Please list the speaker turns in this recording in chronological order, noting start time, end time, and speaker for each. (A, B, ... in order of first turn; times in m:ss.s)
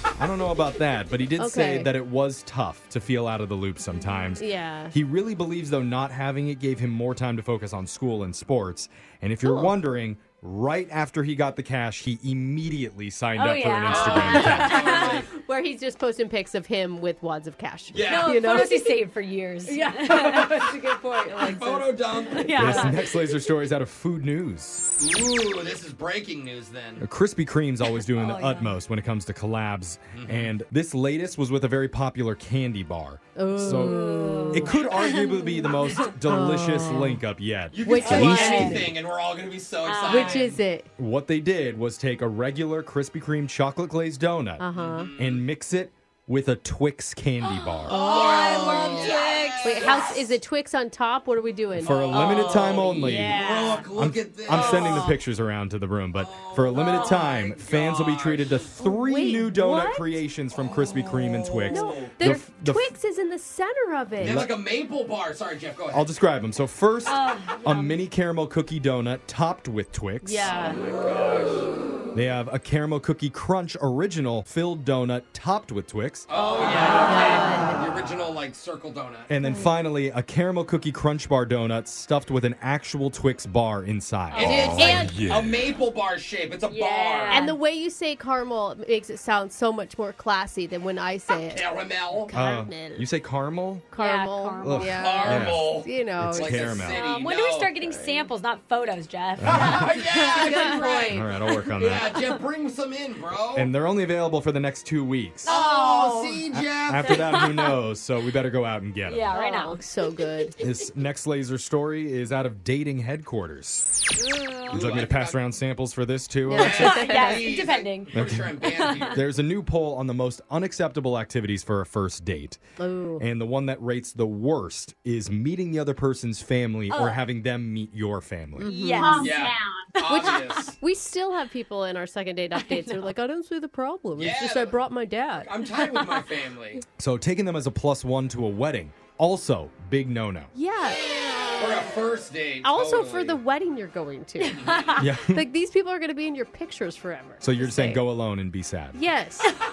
0:00.2-0:15.0 A
0:01.4-0:01.9 B
0:04.4-0:04.9 B
0:09.4-0:09.7 B
0:13.4-0:15.2 C
0:13.9-0:15.3 D
0:14.7-0:19.0 B
0:17.9-0:18.8 D
0:18.0-0:20.7 C
0:19.6-0:22.5 B
0:20.1-0:20.6 D
0:21.4-0:22.9 D
0:22.3-0:23.0 C
0:22.6-0:24.9 A
0:25.0-0:27.0 D
0:27.0-0:38.9 A
0:28.0-0:28.7 C
0:30.1-0:30.5 D
0:33.4-0:34.8 B
0:33.6-0:36.1 C
0:36.2-0:37.2 B
0:37.7-0:40.6 D
0:37.8-0:38.9 B
0:38.2-0:38.7 C
0:39.8-0:40.5 C
0:40.1-0:40.9 B
0:41.0-0:44.7 A
0:44.6-0:45.1 B
0:44.7-0:45.4 D
0:45.2-0:48.0 A
0:47.4-0:50.2 C
0:47.9-0:52.6 B
0:47.9-0:50.2 D
0:51.8-0:53.4 A
0:51.8-0:55.1 D
0:53.0-0:53.9 C
0:54.0-1:02.9 A
0:54.5-0:55.1 B
0:56.2-0:58.7 D
0:56.7-0:57.5 C
0:58.8-1:00.0 B
1:00.5-1:02.1 D
1:01.7-1:04.4 B
1:04.2-1:04.5 A
1:04.2-1:06.1 D
1:05.9-1:10.5 A
1:07.1-1:08.0 C
1:10.2-1:10.8 B
1:10.6-1:11.7 D
1:12.1-1:16.3 A
1:16.3-1:19.3 D
1:16.9-1:17.5 C
1:17.0-1:17.8 B
1:19.3-1:25.3 A
1:24.3-1:24.9 C
1:24.3-1:27.5 D
1:24.4-1:25.2 B
1:26.7-1:27.6 C
1:27.3-1:31.7 B
1:31.5-1:32.3 D
1:32.2-1:33.1 B
1:32.3-1:33.9 A
1:33.9-1:36.8 B
1:34.0-1:35.4 C
1:34.6-1:37.0 A
1:35.0-1:37.8 D
1:36.9-1:41.1 C
1:37.8-1:38.2 B
1:39.4-1:39.9 A
1:39.5-1:41.2 D
1:40.2-1:41.2 B
1:41.1-1:42.1 A
1:41.8-1:43.7 D
1:43.6-1:45.5 A
1:45.4-1:46.4 C
1:45.5-1:47.3 D
1:46.5-1:49.3 A
1:47.0-1:47.8 C
1:49.1-1:49.8 C
1:49.3-1:50.5 B
1:50.6-1:54.0 A
1:54.2-1:54.8 C
1:54.7-1:55.4 D
1:54.7-1:57.0 A
1:56.5-1:57.5 B
1:56.5-1:59.2 D
1:56.6-1:59.2 C
1:58.1-1:58.5 A
1:59.1-2:02.6 A
2:02.8-2:03.2 B
2:03.2-2:08.7 A
2:06.9-2:07.2 C
2:08.6-2:09.3 B
2:08.6-2:09.5 C
2:09.1-2:10.8 D
2:10.1-2:15.5 B
2:12.6-2:13.1 C
2:14.2-2:14.8 D
2:15.4-2:16.8 D
2:17.0-2:20.5 A
2:20.6-2:21.7 B
2:21.6-2:23.4 D
2:22.6-2:24.8 B
2:24.4-2:25.0 C
2:24.6-2:25.0 D
2:25.0-2:25.4 A
2:25.3-2:28.0 B
2:27.4-2:29.0 A
2:28.9-2:29.5 B